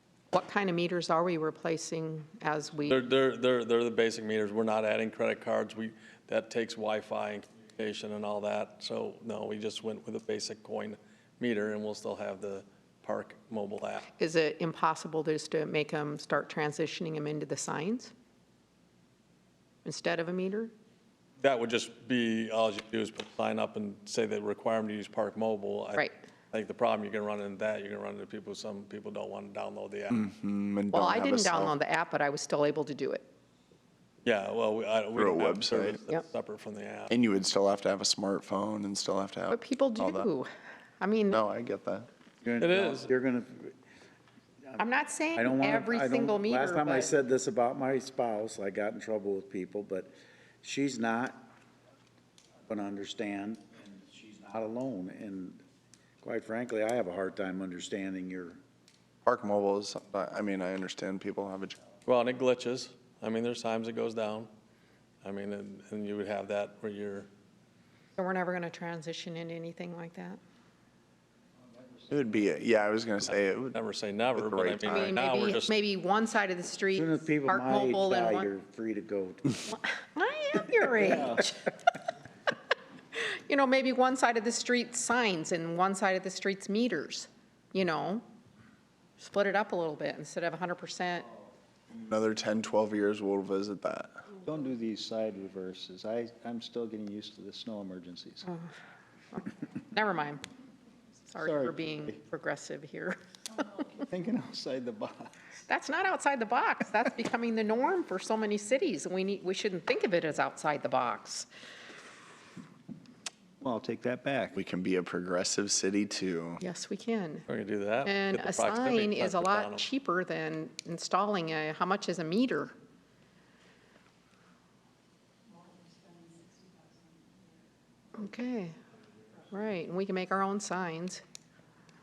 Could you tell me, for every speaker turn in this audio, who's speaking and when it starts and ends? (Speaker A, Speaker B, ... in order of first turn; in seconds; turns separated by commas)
Speaker A: 0.3-3.1, Speaker B: 2.9-14.1, Speaker A: 14.2-18.1, Speaker A: 19.8-20.7, Speaker B: 21.4-30.2, Speaker C: 30.1-31.7, Speaker A: 30.9-33.3, Speaker B: 34.2-37.1, Speaker C: 35.1-36.0, Speaker C: 37.1-40.3, Speaker A: 39.5-40.5, Speaker A: 41.0-41.4, Speaker C: 41.3-42.1, Speaker D: 42.4-43.7, Speaker B: 42.6-43.1, Speaker A: 44.8-47.2, Speaker D: 45.3-51.5, Speaker D: 52.7-55.6, Speaker D: 56.2-58.6, Speaker C: 59.2-61.8, Speaker B: 62.0-64.5, Speaker B: 65.2-67.3, Speaker A: 68.2-70.4, Speaker C: 72.1-73.8, Speaker B: 73.3-75.7, Speaker C: 74.3-75.1, Speaker A: 74.8-78.5, Speaker D: 77.0-79.6, Speaker A: 79.7-81.7, Speaker A: 83.1-88.2, Speaker A: 89.2-91.3, Speaker C: 91.9-94.2, Speaker E: 94.4-98.5, Speaker A: 99.3-100.4, Speaker A: 101.3-104.0, Speaker E: 101.4-102.1, Speaker E: 104.1-105.3, Speaker A: 105.7-111.5, Speaker E: 113.6-114.6, Speaker C: 114.5-116.6, Speaker A: 116.6-117.5, Speaker B: 117.5-119.8, Speaker A: 118.0-122.7, Speaker A: 128.2-128.7, Speaker A: 129.5-131.2